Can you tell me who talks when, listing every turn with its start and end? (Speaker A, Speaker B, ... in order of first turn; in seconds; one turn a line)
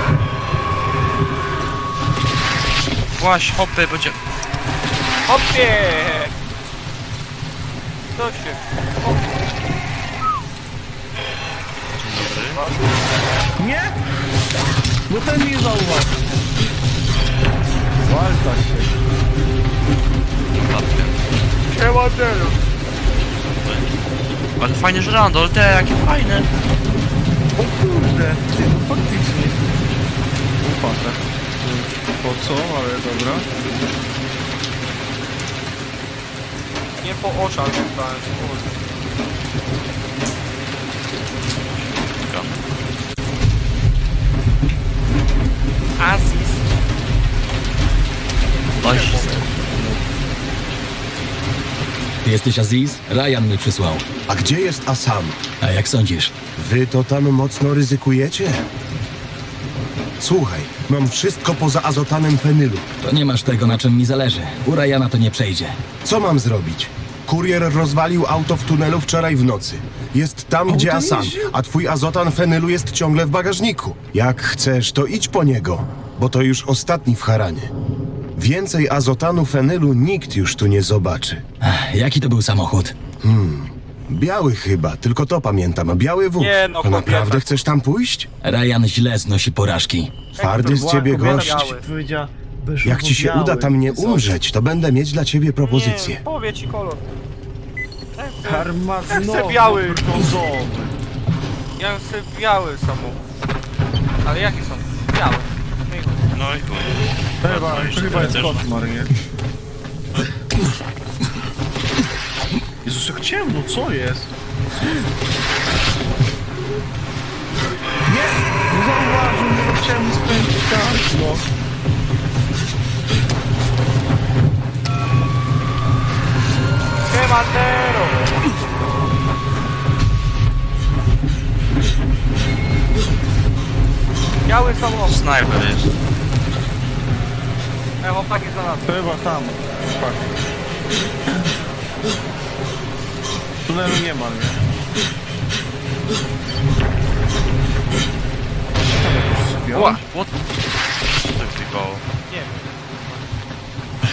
Speaker A: 3.1-4.2
Speaker B: 5.3-6.3
Speaker B: 8.2-9.3
Speaker A: 12.0-12.6
Speaker B: 12.5-12.8
Speaker C: 13.6-13.9
Speaker C: 15.1-16.3
Speaker C: 18.0-19.0
Speaker A: 20.5-21.2
Speaker B: 21.7-22.6
Speaker A: 23.6-23.9
Speaker A: 24.6-26.5
Speaker C: 27.6-29.8
Speaker C: 30.6-33.5
Speaker B: 37.0-38.8
Speaker A: 42.0-42.5
Speaker B: 46.0-46.6
Speaker A: 48.8-49.3
Speaker B: 48.8-49.4
Speaker C: 49.4-50.0
Speaker D: 52.2-54.0
Speaker E: 54.3-55.4
Speaker D: 55.6-56.4
Speaker E: 56.5-58.7
Speaker E: 60.2-62.9
Speaker D: 63.0-65.8
Speaker E: 66.0-77.7
Speaker C: 70.7-71.5
Speaker E: 78.4-81.4
Speaker D: 81.6-82.9
Speaker E: 83.2-88.3
Speaker B: 86.4-87.6
Speaker D: 88.4-90.3
Speaker E: 90.4-91.7
Speaker B: 90.4-91.9
Speaker C: 90.6-94.3
Speaker E: 92.8-96.2
Speaker B: 95.6-97.0
Speaker B: 98.2-100.0
Speaker C: 98.4-101.0
Speaker B: 101.8-103.2
Speaker B: 104.2-106.2
Speaker A: 106.3-108.7
Speaker C: 107.4-109.1
Speaker C: 112.8-114.3
Speaker C: 118.0-121.5
Speaker B: 127.1-128.5
Speaker B: 134.5-135.2
Speaker A: 135.1-135.9
Speaker B: 138.0-138.9
Speaker C: 138.9-140.3
Speaker C: 143.7-144.6
Speaker C: 148.8-150.1
Speaker A: 149.7-150.3
Speaker A: 151.2-152.0
Speaker B: 152.3-153.2